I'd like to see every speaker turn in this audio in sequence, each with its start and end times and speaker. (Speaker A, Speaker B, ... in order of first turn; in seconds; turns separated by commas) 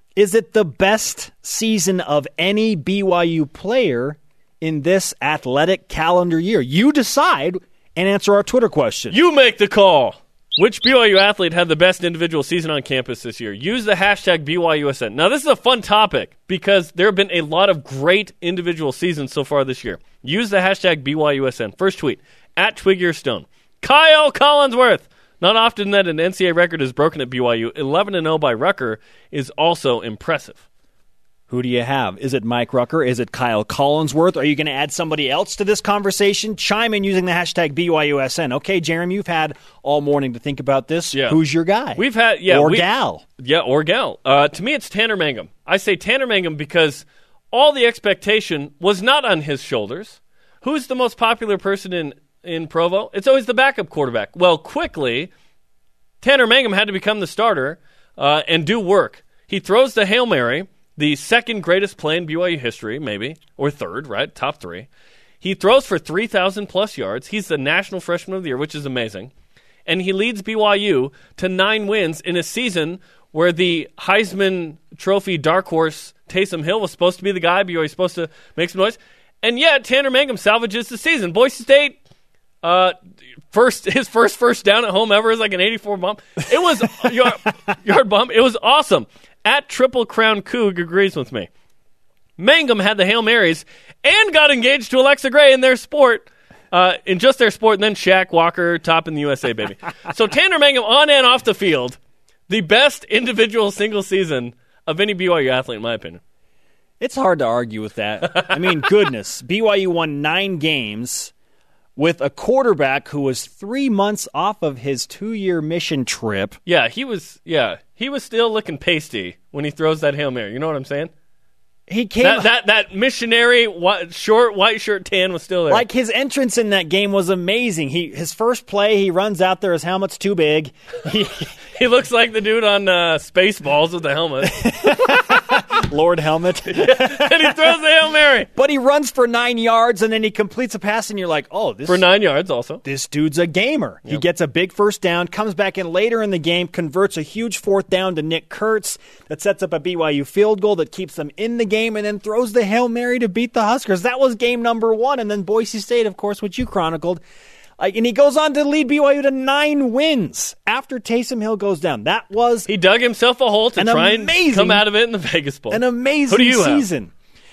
Speaker A: 0.2-9.2, Speaker B: 9.1-30.6, Speaker A: 31.5-43.2, Speaker B: 41.1-41.4, Speaker B: 42.0-55.3, Speaker B: 56.2-64.9, Speaker B: 65.4-69.3, Speaker B: 69.9-82.0, Speaker B: 82.6-83.0, Speaker B: 83.5-91.5, Speaker B: 92.4-106.2, Speaker A: 107.0-111.3, Speaker A: 112.0-116.6, Speaker B: 116.7-121.1, Speaker A: 121.9-122.5, Speaker B: 122.2-125.8, Speaker A: 125.7-131.5, Speaker B: 131.8-134.6, Speaker A: 134.4-137.8, Speaker B: 136.7-138.5, Speaker A: 138.5-142.0, Speaker B: 141.9-142.8, Speaker A: 142.8-157.2, Speaker A: 157.8-162.7, Speaker B: 162.7-166.9, Speaker A: 163.8-164.8, Speaker A: 165.7-167.1